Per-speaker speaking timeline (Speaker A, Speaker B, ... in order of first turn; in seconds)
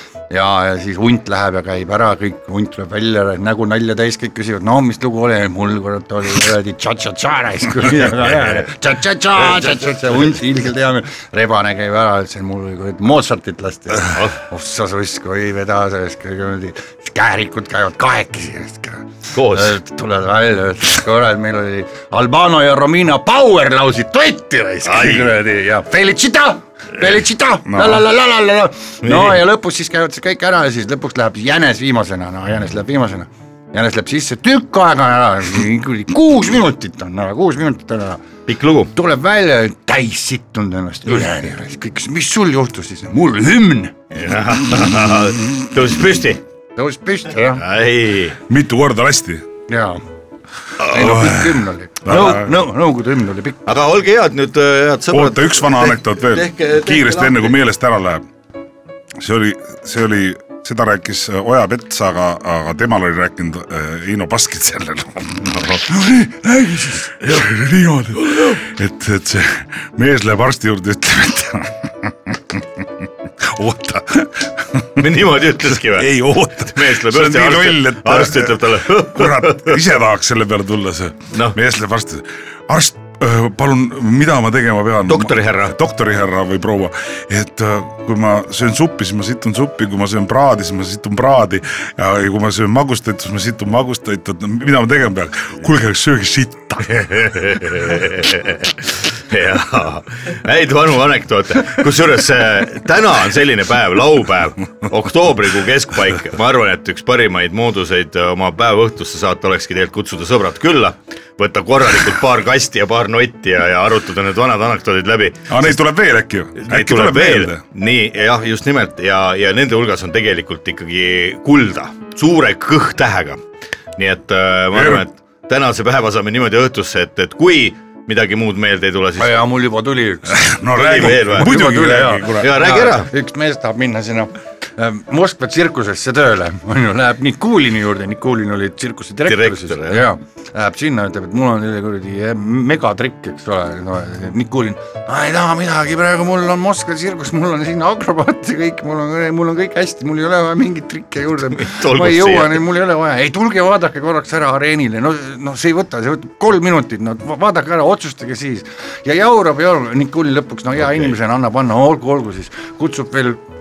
Speaker A: 0.3-38.2, 38.9-43.9, 46.8-47.6, 49.7-50.0, 50.8-53.6, 66.7-67.0, 129.2-130.4, 131.0-163.4
Speaker B: 14.1-14.4, 19.3-19.8, 24.8-25.3, 29.0-29.4, 38.5-38.9, 44.1-46.4, 47.5-48.4, 52.1-52.4, 53.7-57.5, 65.4-65.8, 75.0-79.8, 85.1-85.8, 96.9-115.8, 116.6-123.4, 124.0-129.4, 130.7-133.1, 139.2-140.1, 151.6-152.6
Speaker C: 27.7-28.1, 48.5-49.5, 50.9-52.6, 55.1-58.2, 59.2-72.8, 73.4-75.1, 75.6-97.9, 115.5-117.6, 124.7-125.0, 130.3-132.5